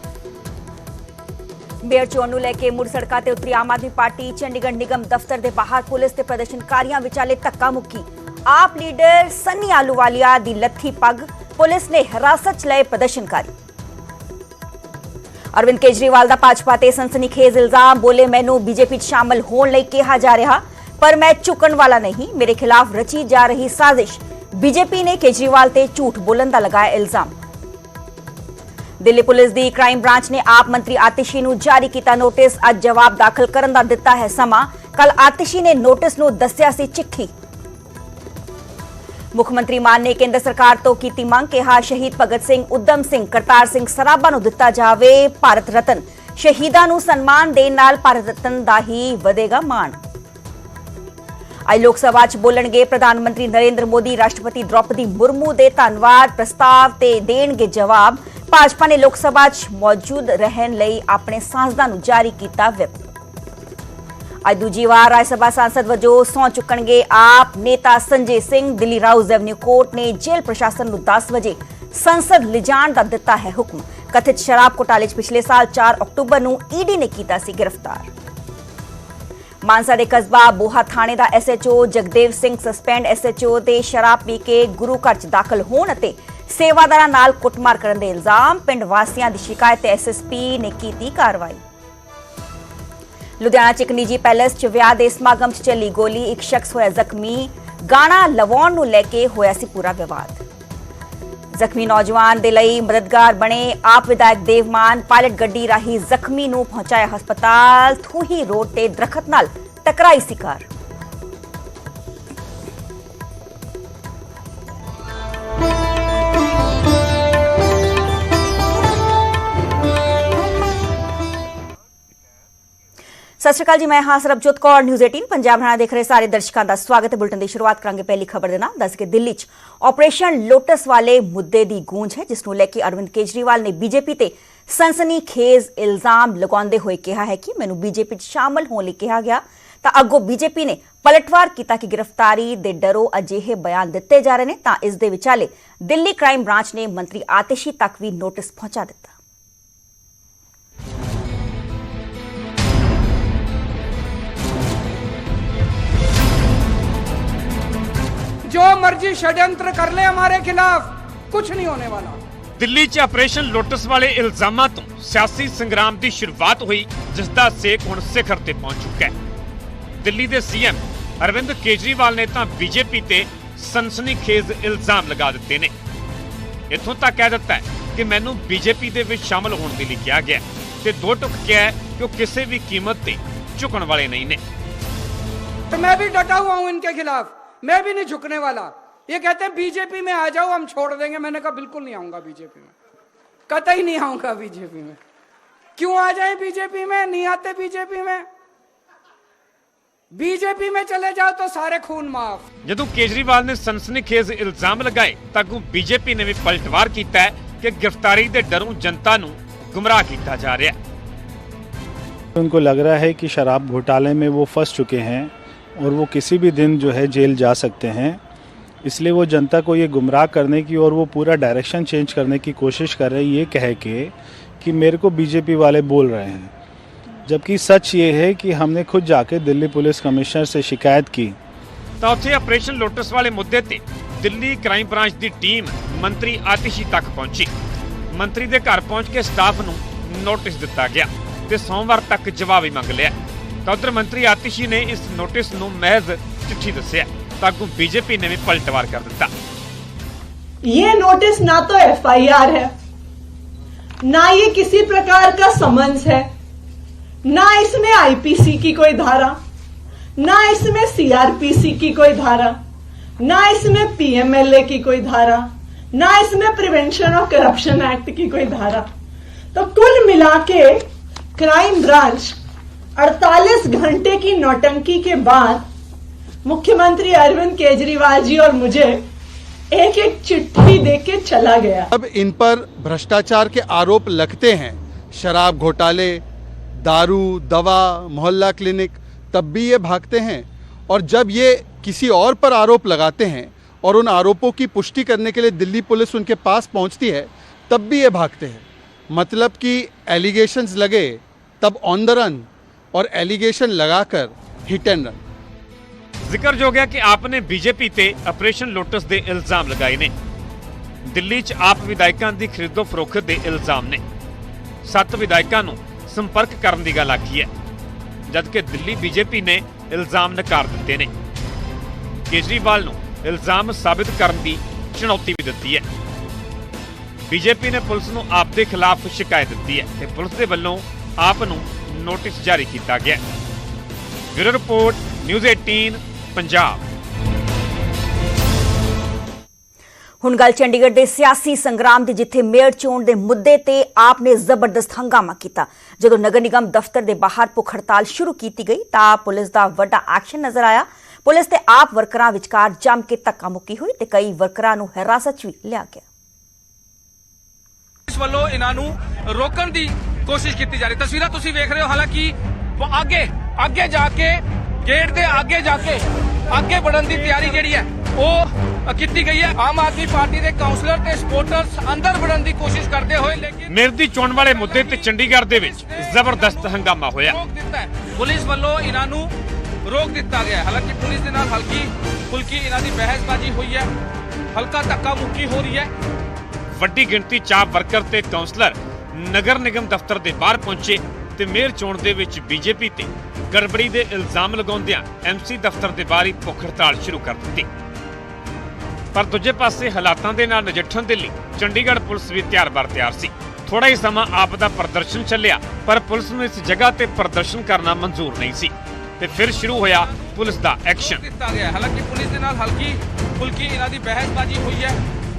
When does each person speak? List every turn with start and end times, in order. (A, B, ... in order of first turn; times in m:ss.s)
0:01.8-0:13.5 A
0:15.5-0:27.3 A
0:29.0-0:37.3 A
0:39.3-0:50.0 A
0:51.7-1:03.1 A
1:04.4-1:18.1 A
1:19.6-1:31.6 A
1:33.4-1:40.4 A
1:41.6-1:50.7 A
2:03.4-2:29.2 A
2:38.5-2:42.2 B
2:42.6-2:49.1 C
2:50.0-2:55.7 C
2:56.7-3:04.4 C
3:05.7-3:12.7 B
3:13.5-3:15.0 B
3:15.8-3:18.2 B
3:20.2-3:22.4 B
3:22.6-3:30.8 C
3:32.4-3:38.2 D
3:38.8-3:46.5 D
3:47.3-3:51.4 D
3:52.0-3:57.5 C
3:58.1-4:09.3 C
4:10.6-4:12.7 E
4:14.0-4:16.3 E
4:17.3-4:19.4 E
4:20.2-4:22.6 E
4:23.2-4:28.9 E
4:29.5-4:32.4 E
4:33.0-4:35.6 E
4:36.4-4:39.0 E
4:39.7-4:41.9 E
4:41.9-4:46.2 F
4:46.8-5:05.2 F
5:06.2-5:10.1 C
5:11.1-5:14.0 C
5:14.8-5:17.5 C
5:18.3-5:21.1 C
5:22.3-5:25.8 C
5:27.3-5:33.2 C
5:34.3-5:36.8 C
5:40.2-5:56.0 A
5:58.1-6:13.7 G
6:13.7-6:17.4 C
6:14.6-6:19.3 G
6:19.9-6:23.9 G
6:24.5-6:25.9 G
6:26.8-6:37.7 C
6:39.2-6:51.2 C
6:49.9-6:50.3 G
6:51.0-6:55.0 G